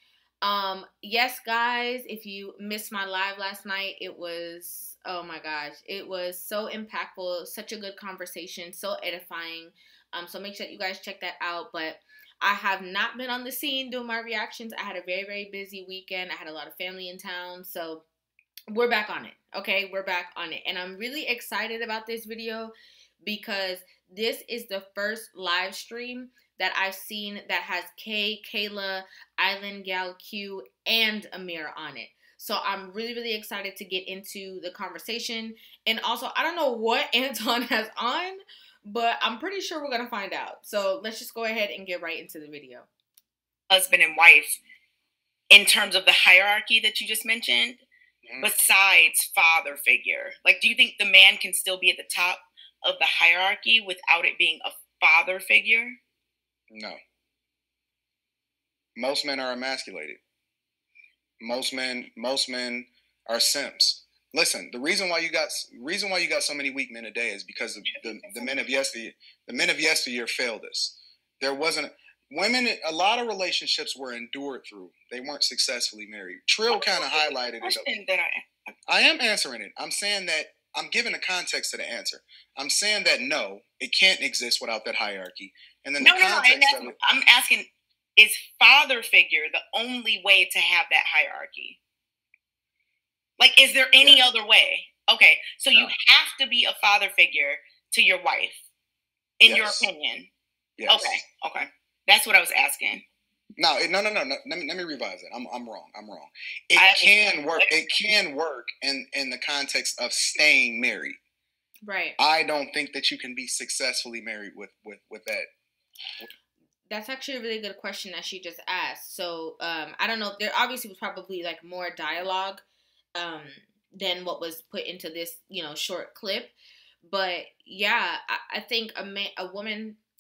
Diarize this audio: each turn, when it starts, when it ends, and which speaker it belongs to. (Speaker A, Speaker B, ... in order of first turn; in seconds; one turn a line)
Speaker A: 0.4-18.0
Speaker A: 18.7-42.9
Speaker B: 43.7-44.6
Speaker B: 45.5-47.8
Speaker C: 48.2-48.5
Speaker B: 48.4-56.0
Speaker C: 56.7-57.0
Speaker C: 59.0-60.2
Speaker C: 61.4-77.9
Speaker B: 67.9-68.7
Speaker B: 76.7-78.7
Speaker C: 78.9-87.0
Speaker B: 86.0-91.8
Speaker B: 93.4-98.6
Speaker C: 94.0-94.2
Speaker B: 99.4-100.3
Speaker C: 99.4-99.9
Speaker C: 100.8-101.2
Speaker B: 100.9-103.0
Speaker C: 103.6-111.2
Speaker B: 106.8-107.7
Speaker A: 111.8-112.2
Speaker C: 112.2-115.5
Speaker A: 116.9-122.6
Speaker A: 123.2-130.0